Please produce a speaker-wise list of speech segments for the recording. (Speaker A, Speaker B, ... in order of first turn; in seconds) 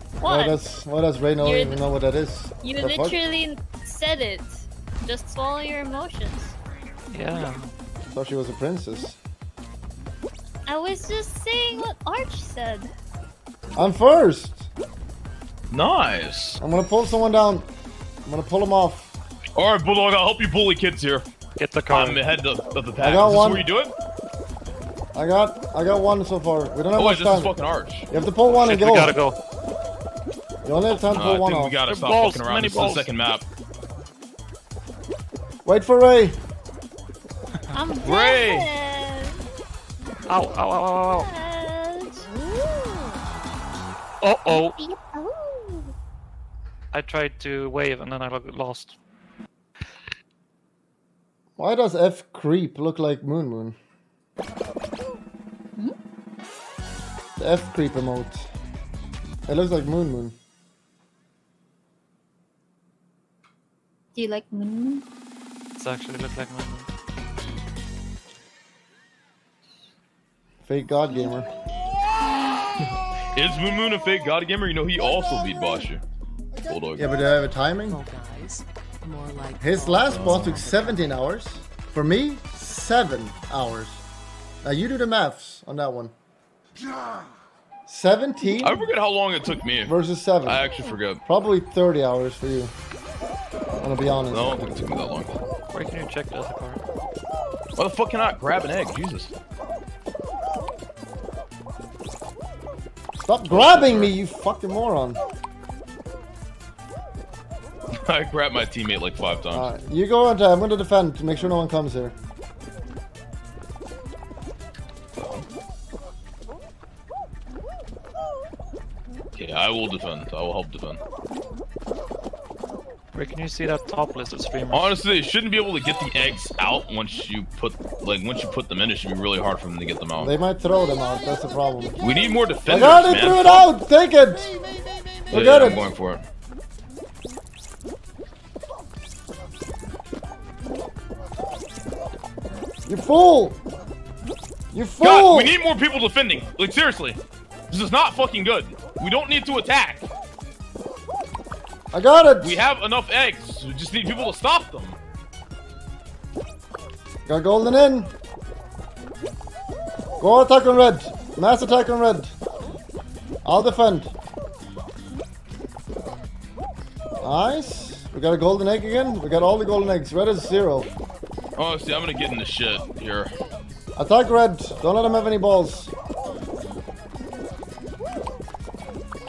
Speaker A: 0.2-0.6, 1.4-1.8, 2.6-6.6, 10.7-12.9, 37.7-39.4, 41.1-42.3, 44.5-45.9, 64.2-65.0
Speaker B: 0.2-3.2, 8.1-9.2, 13.8-14.7, 16.6-17.7, 18.2-19.2, 23.0-23.7, 25.1-27.5, 28.1-29.1, 30.6-31.8, 35.6-36.4, 51.6-53.8, 57.4-58.5, 59.5-60.4, 70.6-71.5, 76.9-78.0, 79.6-84.0, 84.6-86.1, 87.9-88.9, 89.9-90.7, 91.2-92.7, 93.7-95.1, 103.2-105.2, 109.5-112.2, 130.2-131.9, 132.7-135.9, 142.9-143.6, 144.7-145.6, 151.9-152.7, 157.3-158.1, 160.2-162.4, 163.4-164.1, 167.2-170.9, 174.0-175.9
Speaker C: 7.1-7.7, 21.6-22.2, 28.5-29.4, 31.9-33.1, 40.3-41.3, 44.2-44.8, 46.9-49.0, 65.8-66.9, 95.7-96.8, 123.1-124.9
Speaker D: 15.7-16.6, 19.6-21.3, 21.9-23.9, 26.9-28.1, 31.1-33.5, 38.0-38.7, 72.8-76.0, 76.7-77.2, 80.1-80.6, 88.6-91.2, 94.3-95.4, 97.8-99.3, 103.5-104.2, 107.9-109.7, 115.2-115.5, 119.3-121.0, 124.7-130.4, 132.0-133.7, 135.3-136.2, 145.0-147.2, 147.7-150.1, 152.4-155.0, 171.6-173.3
Speaker E: 77.9-81.2